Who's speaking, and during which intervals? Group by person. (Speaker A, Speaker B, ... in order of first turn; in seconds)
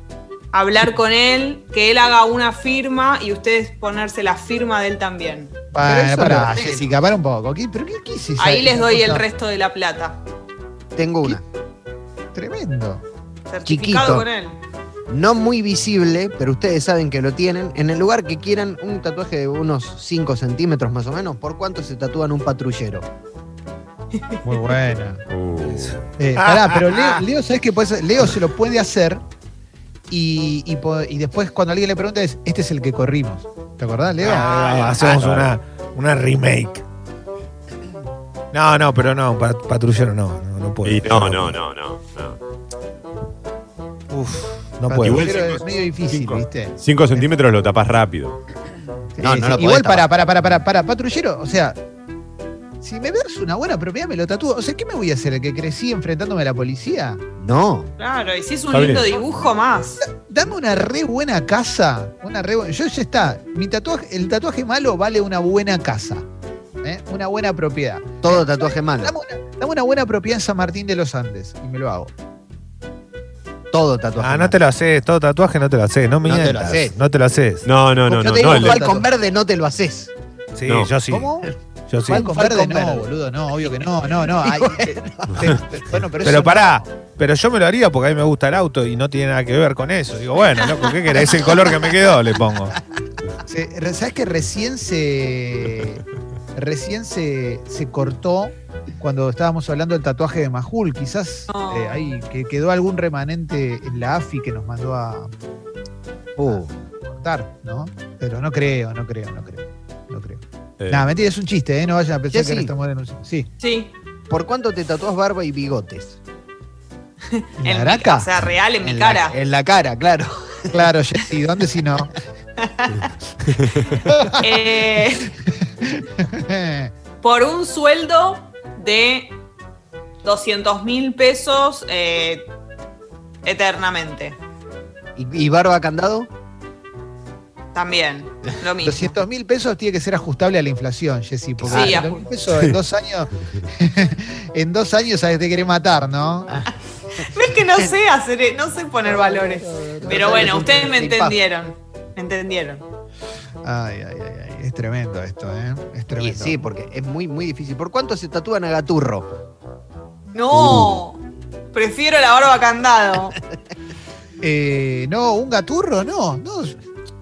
Speaker A: 0.5-5.5, 6.2-6.9, 8.4-10.2, 13.5-14.6, 24.1-24.4, 34.3-35.0, 58.0-60.0, 101.5-102.2, 113.6-113.9, 117.3-119.4, 122.6-123.1, 124.4-125.3, 127.2-129.4, 130.2-132.5, 133.4-134.4, 137.7-139.2, 141.7-142.2, 147.2-152.8, 160.3-161.2, 161.7-163.4
Speaker B: 5.7-9.2, 12.3-13.0, 24.4-25.2, 26.2-29.2, 30.1-34.5, 44.9-47.2, 49.2-51.8, 52.8-57.2, 60.0-66.2, 66.8-72.1, 78.2-79.1, 81.1-81.5, 82.1-86.8, 93.4-96.0, 96.5-105.3, 106.5-113.5, 117.6-118.3, 120.7-122.1, 124.0-125.0, 125.7-126.9, 138.8-146.6, 149.1-150.7, 153.6-156.7, 164.4-166.8
Speaker C: 5.8-6.8, 10.9-11.4, 13.7-14.2, 15.1-23.1, 49.2-50.1, 57.4-57.9, 68.2-69.1, 73.7-74.5, 76.2-76.9, 78.0-80.1, 82.1-83.1, 83.6-85.6, 106.4-106.7, 112.3-112.7, 114.3-116.2, 118.8-120.9, 135.2-136.3, 141.6-142.1, 147.2-147.9, 150.0-151.4, 156.2-159.3
Speaker D: 25.3-26.0, 34.9-35.5, 40.8-42.4, 45.0-48.4, 58.7-59.1, 77.6-78.9, 110.8-111.1
Speaker E: 25.6-27.0, 34.2-36.8, 38.5-41.6, 44.1-45.5, 74.2-77.7, 80.5-82.3, 86.2-92.8